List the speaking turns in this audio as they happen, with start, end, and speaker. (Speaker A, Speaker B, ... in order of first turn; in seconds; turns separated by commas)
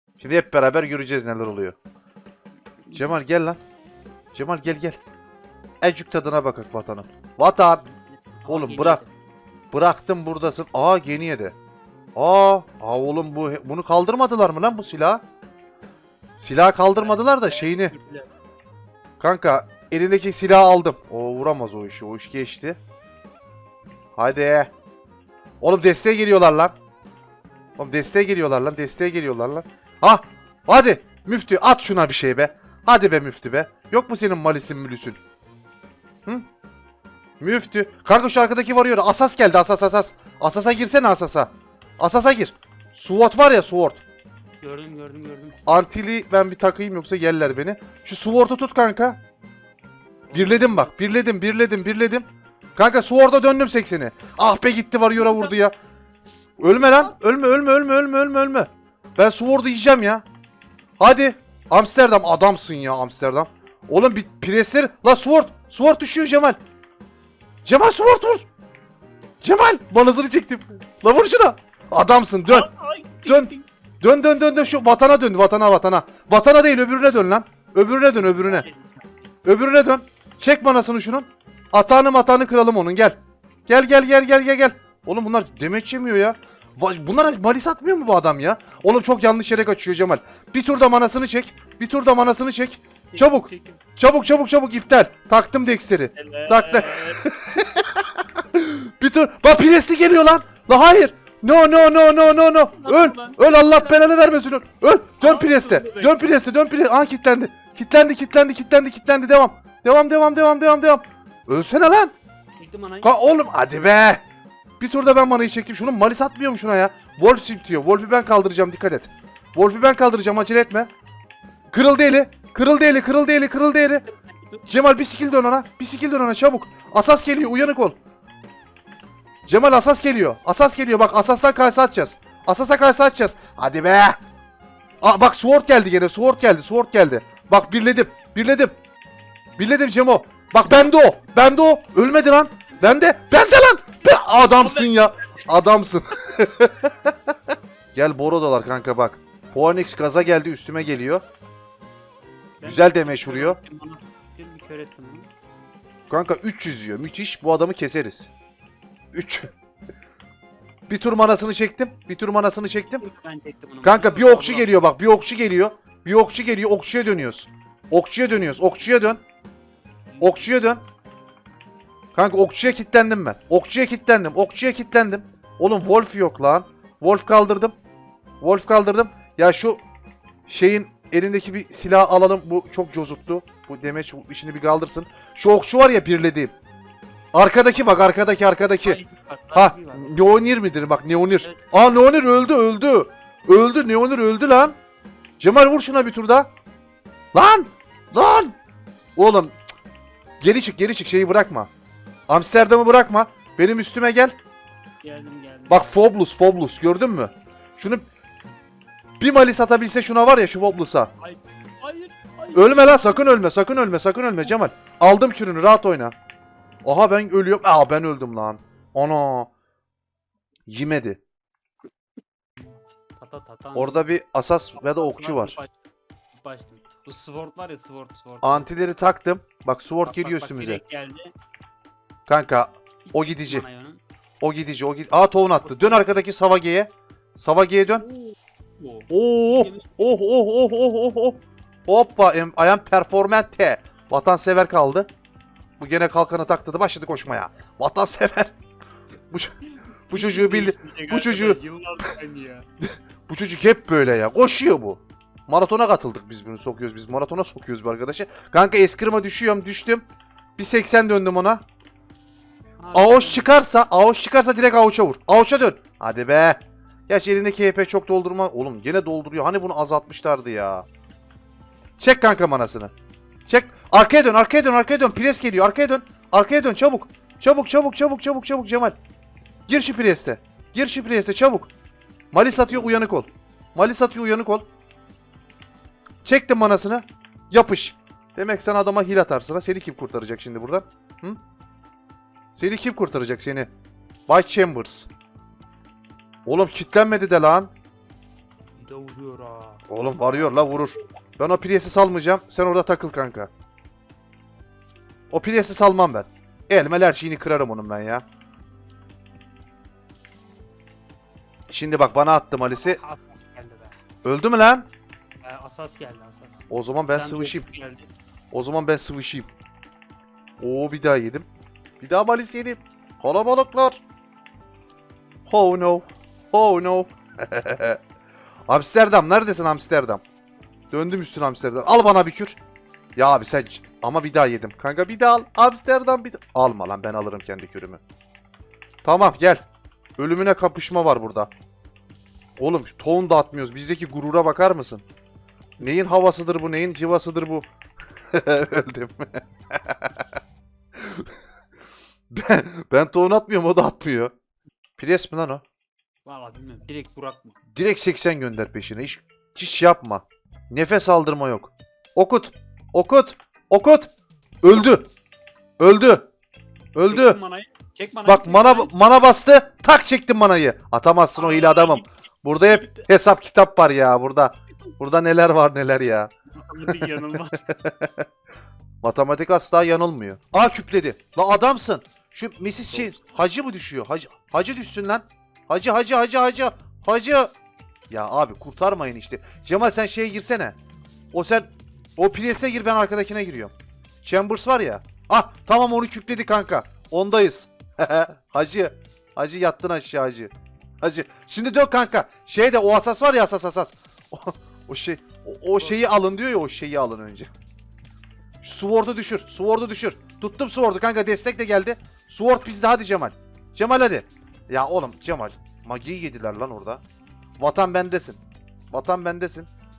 Speaker A: 0.2-1.8, Speaker A: 2.9-3.6, Speaker A: 4.3-5.0, Speaker A: 5.8-7.8, Speaker B: 7.8-9.1, Speaker A: 8.5-9.0, Speaker A: 9.7-11.6, Speaker A: 12.2-15.2, Speaker A: 16.4-17.9, Speaker B: 16.9-18.3, Speaker A: 19.2-22.8, Speaker A: 24.2-24.7, Speaker A: 25.6-26.7, Speaker A: 27.8-35.2, Speaker A: 37.4-44.0, Speaker B: 44.6-45.6, Speaker A: 45.7-49.2, Speaker B: 50.3-51.2, Speaker A: 50.3-55.8, Speaker B: 55.1-55.6, Speaker A: 56.6-60.2, Speaker B: 56.7-57.1, Speaker A: 61.0-66.6, Speaker A: 67.6-68.5, Speaker A: 69.4-72.7, Speaker B: 72.5-73.7, Speaker A: 73.3-78.7, Speaker B: 78.2-79.1, Speaker A: 79.5-112.2, Speaker B: 93.1-93.8, Speaker B: 95.9-97.3, Speaker B: 102.7-104.2, Speaker B: 105.2-106.4, Speaker B: 112.6-113.2, Speaker A: 113.0-114.2, Speaker A: 114.8-120.9, Speaker A: 121.7-124.1, Speaker B: 124.0-124.7, Speaker A: 124.7-128.0, Speaker A: 129.5-134.2, Speaker A: 135.0-138.7, Speaker A: 139.6-147.1, Speaker B: 144.1-145.5, Speaker A: 147.9-151.2, Speaker B: 152.6-155.3, Speaker A: 152.6-153.6, Speaker A: 156.1-158.3, Speaker A: 159.1-159.5, Speaker A: 160.9-163.0, Speaker B: 163.0-164.9, Speaker A: 163.8-169.2, Speaker B: 170.1-171.0, Speaker A: 170.2-170.8, Speaker A: 172.2-177.8, Speaker A: 178.4-179.8, Speaker A: 180.5-186.5, Speaker A: 187.3-189.0, Speaker B: 188.8-190.3, Speaker A: 189.5-194.8, Speaker B: 191.4-191.6, Speaker A: 195.4-196.5, Speaker A: 197.3-198.6, Speaker A: 199.2-199.6, Speaker A: 200.4-201.7, Speaker A: 202.3-204.3, Speaker B: 205.0-206.0, Speaker A: 205.7-208.1, Speaker A: 209.2-211.1, Speaker B: 211.2-213.3, Speaker A: 212.6-216.2, Speaker A: 216.8-219.5, Speaker A: 220.7-221.2, Speaker B: 222.6-224.1, Speaker A: 223.8-225.6, Speaker B: 224.8-225.8, Speaker B: 226.3-228.7, Speaker A: 228.4-230.8, Speaker B: 230.1-231.3, Speaker A: 232.3-233.7, Speaker B: 233.1-234.0, Speaker A: 234.4-238.1, Speaker B: 235.6-236.1, Speaker B: 238.0-240.0, Speaker A: 239.1-245.1, Speaker A: 245.8-248.6, Speaker B: 249.6-252.7, Speaker A: 250.1-251.6, Speaker A: 253.3-260.1, Speaker A: 260.6-261.6, Speaker B: 262.8-263.6, Speaker A: 262.9-270.9, Speaker A: 272.0-272.9, Speaker A: 273.5-278.9, Speaker A: 279.7-281.7, Speaker A: 282.3-284.7, Speaker B: 282.5-283.0, Speaker A: 286.2-291.4, Speaker A: 292.6-293.7, Speaker A: 294.3-295.1, Speaker A: 296.5-297.7, Speaker B: 298.8-299.8, Speaker A: 299.9-303.5, Speaker A: 305.3-308.2, Speaker A: 311.7-313.0, Speaker B: 312.7-314.0, Speaker A: 314.2-314.9, Speaker B: 315.4-318.1, Speaker A: 316.7-317.7, Speaker A: 318.5-319.5, Speaker A: 320.6-321.5, Speaker A: 322.0-324.0, Speaker A: 325.5-328.0, Speaker A: 328.7-330.2, Speaker A: 330.9-332.6, Speaker A: 333.2-338.0, Speaker A: 339.0-339.6, Speaker A: 340.2-341.5, Speaker A: 342.6-345.0, Speaker A: 345.8-347.7, Speaker A: 348.3-350.2, Speaker A: 351.0-351.3, Speaker A: 352.3-354.3, Speaker A: 355.0-355.6, Speaker B: 356.2-357.6, Speaker A: 357.8-364.1, Speaker A: 364.6-365.1, Speaker A: 365.8-366.3, Speaker A: 366.9-367.4, Speaker B: 367.1-369.0, Speaker A: 368.3-376.3, Speaker B: 371.4-372.1, Speaker B: 372.7-373.1, Speaker B: 376.5-377.7, Speaker A: 377.9-378.2, Speaker A: 379.0-387.5, Speaker B: 382.9-383.2, Speaker A: 388.1-390.8, Speaker A: 391.3-407.5, Speaker A: 408.6-417.0, Speaker A: 417.6-418.4, Speaker A: 418.9-419.7